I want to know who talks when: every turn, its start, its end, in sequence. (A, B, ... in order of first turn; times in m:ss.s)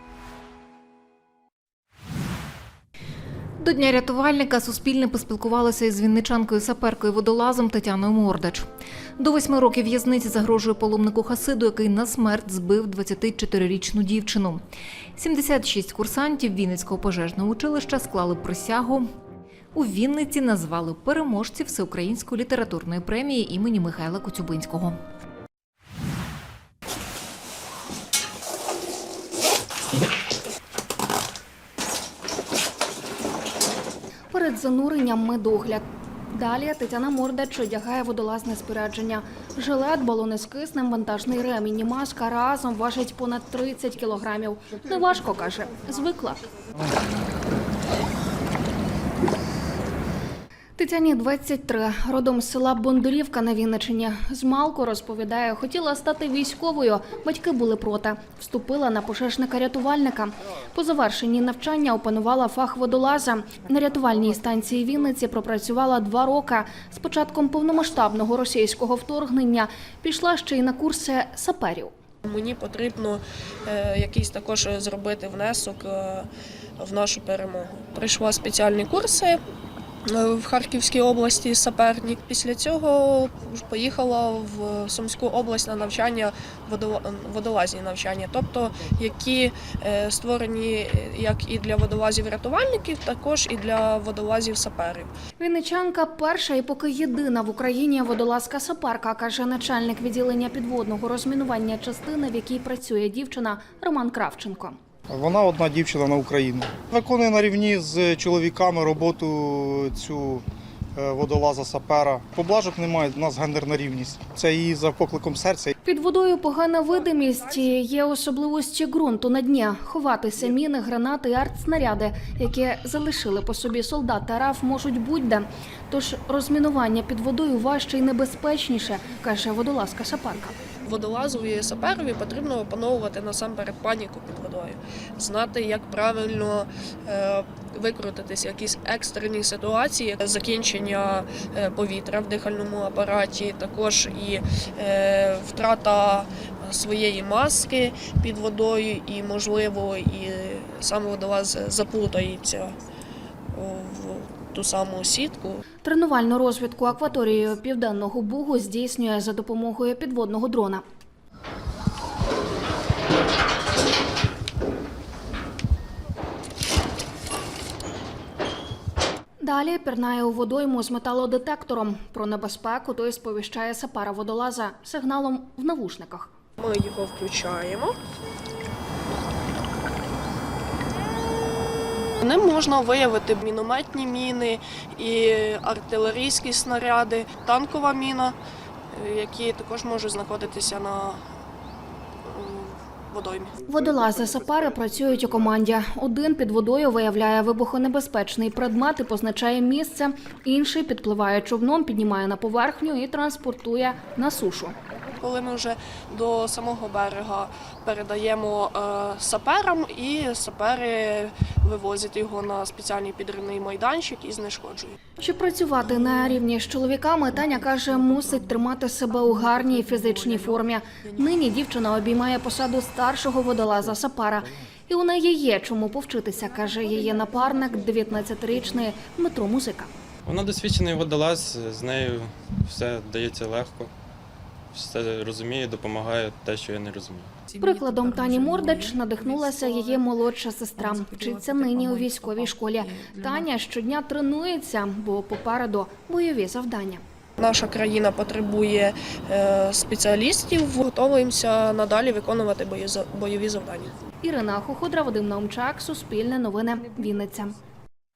0:03.6-0:08.7 A
0:09.2-0:14.6 A
0:15.2-0:19.1 A
0:19.8-0:25.0 A
0:34.3-0:46.4 B
0:50.8-1:11.9 B
1:12.3-1:16.3 C
1:16.8-1:19.4 C
1:20.2-1:35.1 C
1:35.4-1:44.8 B
1:45.1-1:50.4 D
1:51.0-1:55.7 D
1:55.8-2:10.6 B
1:57.0-1:57.6 C
2:10.9-2:32.7 C
2:33.6-2:35.6 C
2:35.8-2:40.8 B
2:49.4-2:56.3 B
2:56.6-2:58.0 C
3:02.2-3:08.4 C
3:09.0-3:11.2 C
3:12.4-3:13.5 C
3:13.6-3:24.8 B
3:25.2-3:34.9 C
3:35.2-3:49.9 B
3:50.3-3:53.9 E
3:54.8-3:57.2 E
3:57.6-4:07.0 B
4:07.4-4:13.9 C
4:14.2-4:17.6 B